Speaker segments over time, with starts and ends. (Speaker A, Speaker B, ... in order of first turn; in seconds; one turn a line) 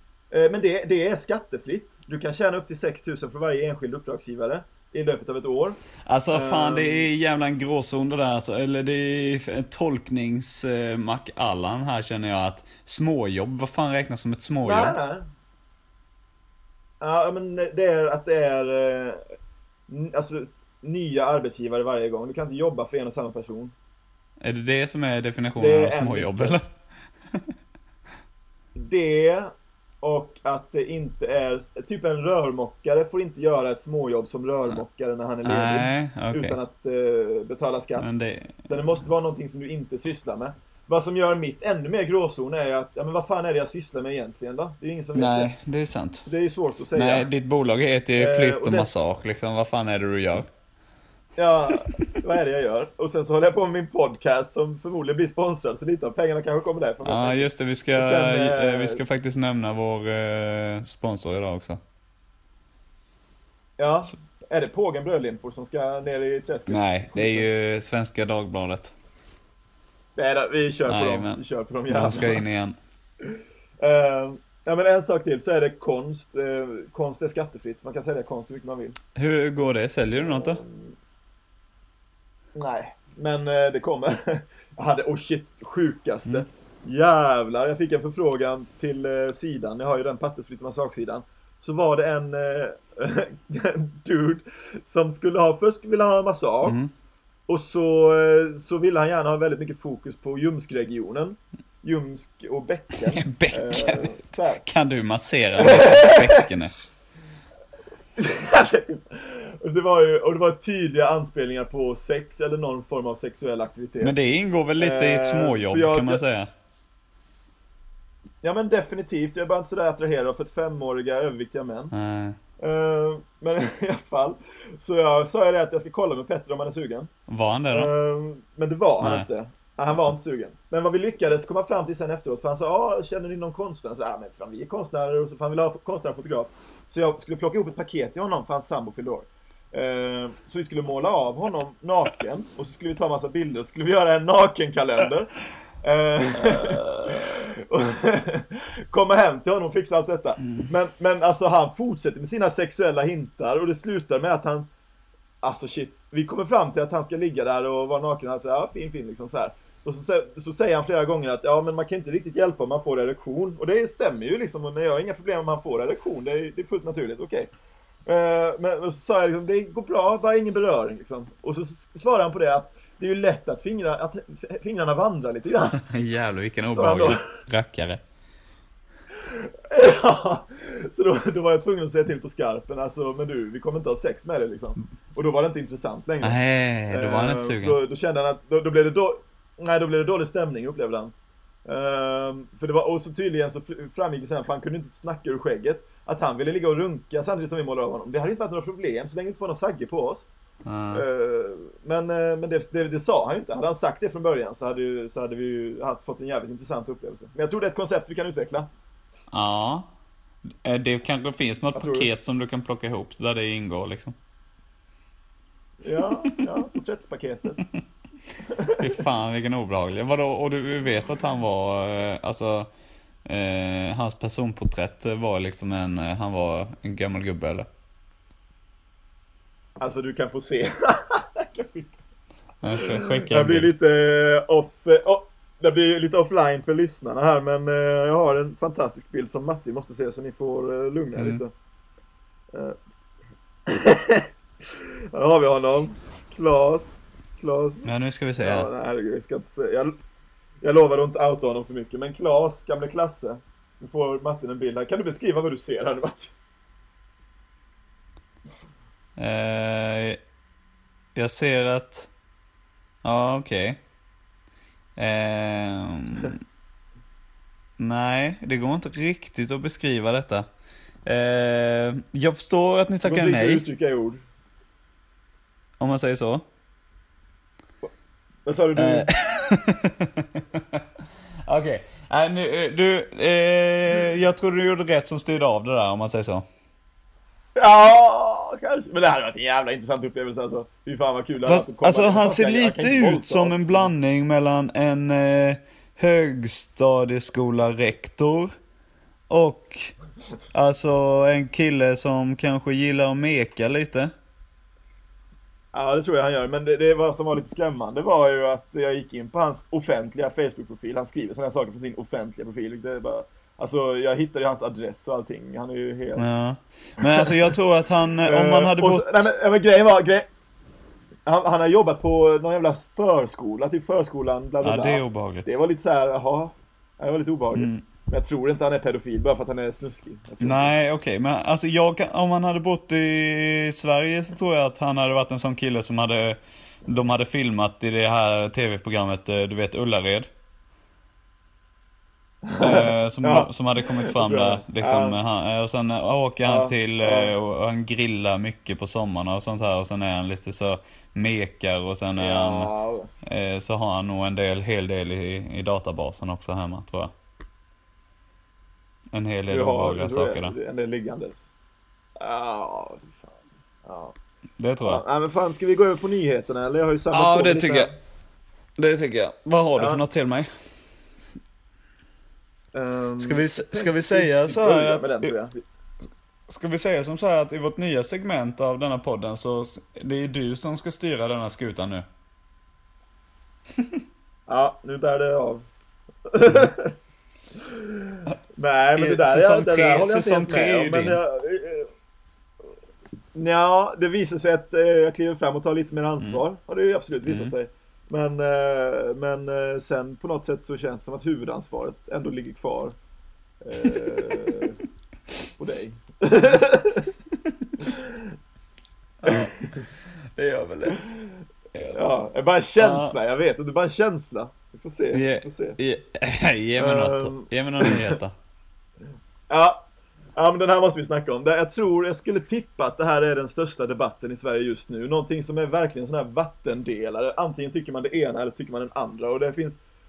Speaker A: 0.3-5.8
Speaker B: 6.1-14.9
Speaker A: 6.3-7.1
Speaker A: 14.7-15.3
Speaker A: 17.0-19.2
Speaker A: 19.9-23.7
Speaker B: 24.4-26.6
Speaker A: 25.5-26.6
Speaker A: 28.8-38.1
Speaker B: 35.5-36.6
Speaker B: 38.0-38.7
Speaker A: 38.7-45.5
Speaker B: 45.1-46.3
Speaker A: 46.3-47.3
Speaker B: 47.0-50.5
Speaker A: 48.2-48.9
Speaker A: 51.4-59.0
Speaker B: 51.8-52.0
Speaker B: 57.0-61.8
Speaker A: 63.8-67.5
Speaker B: 66.7-68.9
Speaker A: 70.2-72.4
Speaker B: 70.9-72.8
Speaker A: 73.2-79.0
Speaker B: 79.2-80.6
Speaker A: 80.2-81.0
Speaker A: 82.6-96.8
Speaker B: 96.6-96.9
Speaker A: 97.5-104.6
Speaker B: 103.1-106.7
Speaker A: 105.6-106.5
Speaker A: 108.2-114.1
Speaker B: 114.0-116.5
Speaker A: 114.8-116.2
Speaker A: 118.4-121.9
Speaker B: 121.9-122.4
Speaker A: 122.6-127.1
Speaker B: 127.3-127.9
Speaker A: 127.7-145.3
Speaker B: 129.0-129.3
Speaker A: 145.8-154.7
Speaker B: 146.3-147.3
Speaker A: 155.4-167.5
Speaker A: 168.1-175.8
Speaker B: 175.8-178.0
Speaker A: 176.7-177.3
Speaker A: 179.2-186.4
Speaker B: 186.2-187.8
Speaker A: 186.9-191.1
Speaker A: 191.7-200.3
Speaker B: 200.7-201.0
Speaker A: 200.9-208.7
Speaker B: 209.3-209.9
Speaker B: 210.6-214.2
Speaker A: 211.8-212.1
Speaker A: 215.8-217.7
Speaker A: 218.5-218.9
Speaker B: 218.7-222.7
Speaker B: 223.2-227.7
Speaker A: 229.8-231.9
Speaker B: 232.6-233.7
Speaker A: 232.8-241.5
Speaker B: 241.2-241.4
Speaker A: 243.7-249.9
Speaker B: 247.8-248.7
Speaker A: 250.6-256.3
Speaker B: 259.2-260.2
Speaker B: 261.1-262.1
Speaker B: 263.0-263.8
Speaker B: 265.0-266.4
Speaker B: 267.8-270.5
Speaker B: 271.1-273.6
Speaker A: 273.0-274.2
Speaker B: 275.8-276.4
Speaker A: 278.5-279.1
Speaker B: 278.8-280.8
Speaker B: 281.5-286.4
Speaker A: 287.6-293.9
Speaker B: 291.4-298.5
Speaker B: 299.3-299.9
Speaker B: 300.5-304.1
Speaker A: 305.7-316.2
Speaker B: 316.2-319.3
Speaker A: 317.0-317.3
Speaker A: 318.2-320.3
Speaker A: 321.3-330.7
Speaker B: 324.6-325.6
Speaker B: 327.5-327.8
Speaker B: 330.4-340.3
Speaker A: 342.4-345.2
Speaker B: 342.6-352.7
Speaker A: 346.4-347.3
Speaker A: 352.2-353.1
Speaker B: 353.2-357.1
Speaker B: 359.1-360.5
Speaker A: 359.5-361.4
Speaker A: 362.2-364.1
Speaker B: 364.6-365.0
Speaker A: 364.8-367.9
Speaker B: 367.1-367.9
Speaker B: 368.8-370.5
Speaker A: 369.8-370.0
Speaker A: 372.7-375.6
Speaker B: 373.2-375.3
Speaker B: 376.5-382.1
Speaker A: 384.5-385.6
Speaker A: 386.3-386.9
Speaker A: 387.6-391.9
Speaker B: 389.0-391.2
Speaker A: 393.4-402.9
Speaker B: 397.3-397.5
Speaker A: 403.6-404.8
Speaker B: 403.8-404.5
Speaker A: 405.6-407.1
Speaker A: 407.8-408.3
Speaker B: 409.2-411.0
Speaker A: 409.2-409.9
Speaker A: 411.9-415.8
Speaker B: 412.8-413.2
Speaker B: 415.1-418.3
Speaker A: 416.8-418.2
Speaker A: 419.5-419.8
Speaker A: 420.4-429.8